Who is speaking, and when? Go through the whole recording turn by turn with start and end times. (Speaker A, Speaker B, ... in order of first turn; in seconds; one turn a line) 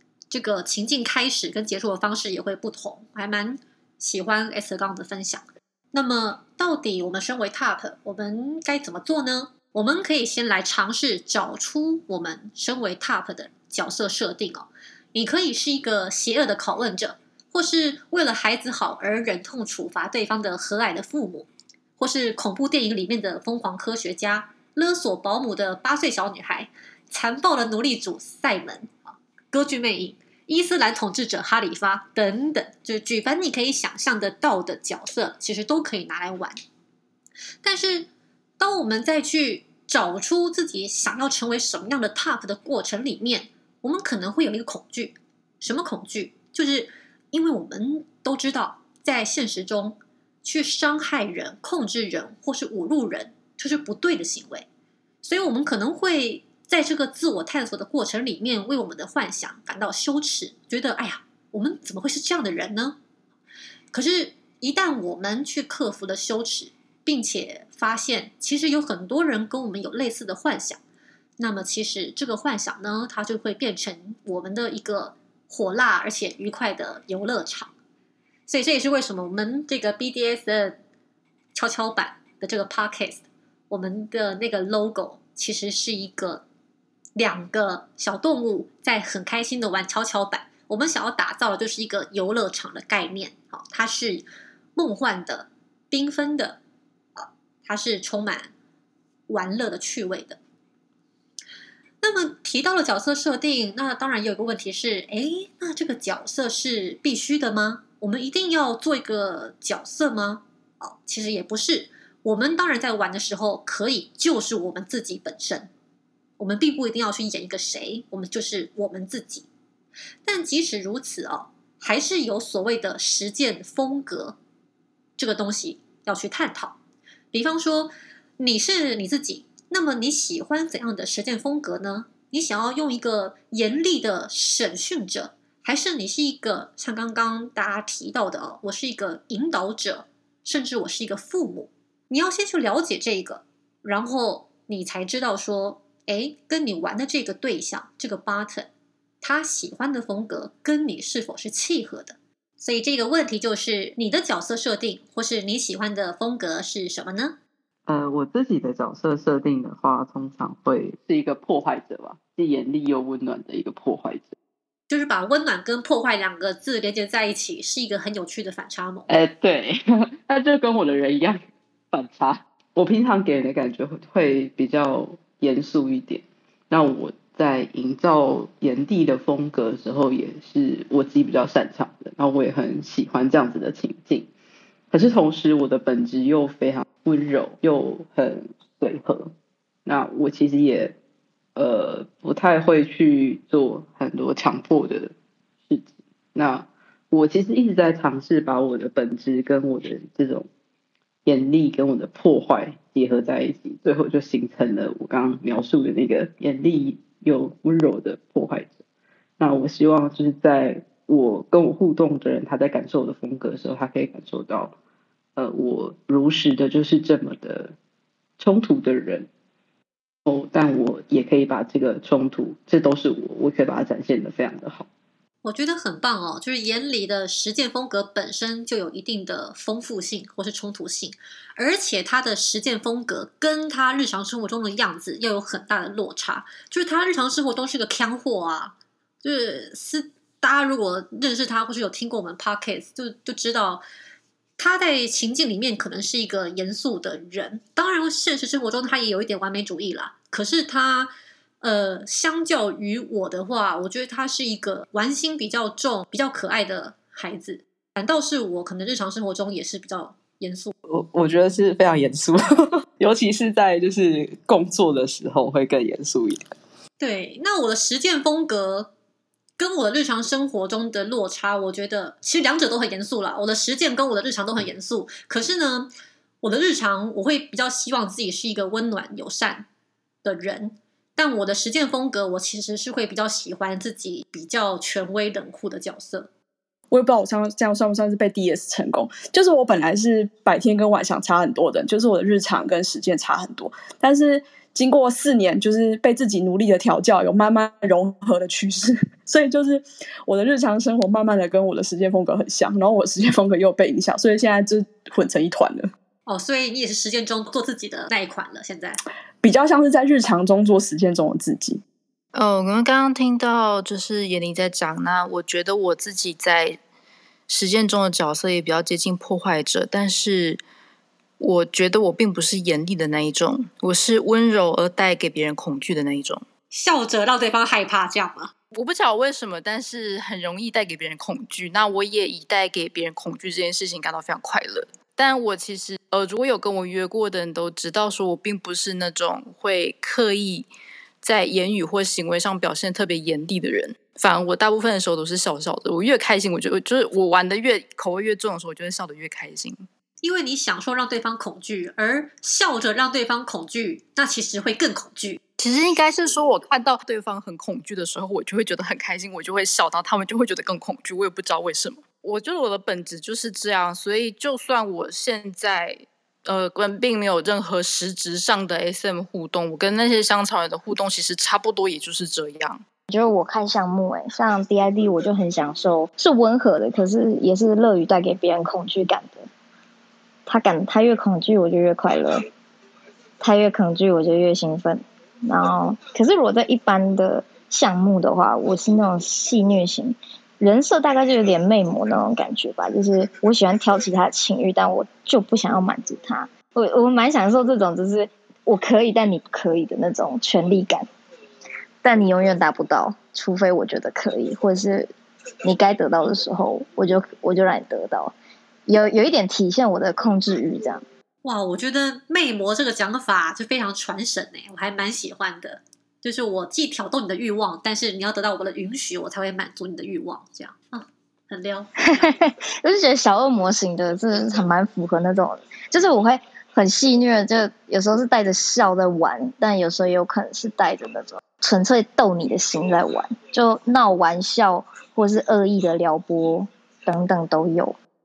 Speaker A: 0.3-36.6
Speaker A: 37.6-38.1
Speaker A: 38.6-54.7
Speaker A: 55.2-63.0
Speaker A: 63.9-70.8
Speaker A: 71.4-77.7
Speaker A: 78.5-80.8
Speaker A: 81.5-86.4
Speaker A: 87.2-96.6
Speaker A: 97.2-98.5
Speaker A: 99.3-100.4
Speaker A: 102.0-115.7
Speaker A: 116.4-119.5
Speaker A: 120.2-124.4
Speaker A: 125.2-126.8
Speaker A: 127.3-148.7
Speaker A: 149.2-157.4
Speaker B: 157.9-164.4
Speaker A: 164.9-169.1
Speaker B: 169.1-171.4
Speaker B: 171.9-184.3
Speaker B: 184.9-189.3
Speaker B: 189.9-191.0
Speaker B: 191.6-195.1
Speaker B: 195.7-200.5
Speaker B: 201.3-208.8
Speaker B: 209.4-214.8
Speaker B: 215.4-217.7
Speaker B: 218.4-219.3
Speaker B: 220.3-224.9
Speaker A: 225.4-243.8
Speaker A: 244.6-260.7
Speaker B: 260.9-266.5
Speaker A: 267.0-268.9
Speaker A: 269.6-275.9
Speaker A: 276.4-279.7
Speaker A: 280.2-286.3
Speaker C: 286.9-305.9
Speaker A: 306.3-309.0
Speaker C: 309.4-311.8
Speaker D: 312.3-316.8
Speaker D: 317.5-320.6
Speaker D: 321.4-326.4
Speaker A: 326.7-328.5
Speaker D: 328.7-340.7
Speaker D: 341.2-349.9
Speaker A: 350.2-355.4
Speaker D: 355.6-372.8
Speaker E: 373.1-379.5
Speaker E: 380.5-382.4
Speaker E: 383.4-401.1
Speaker E: 402.0-405.1
Speaker E: 405.6-408.4
Speaker E: 408.9-411.1
Speaker A: 411.4-422.3
Speaker E: 422.1-438.0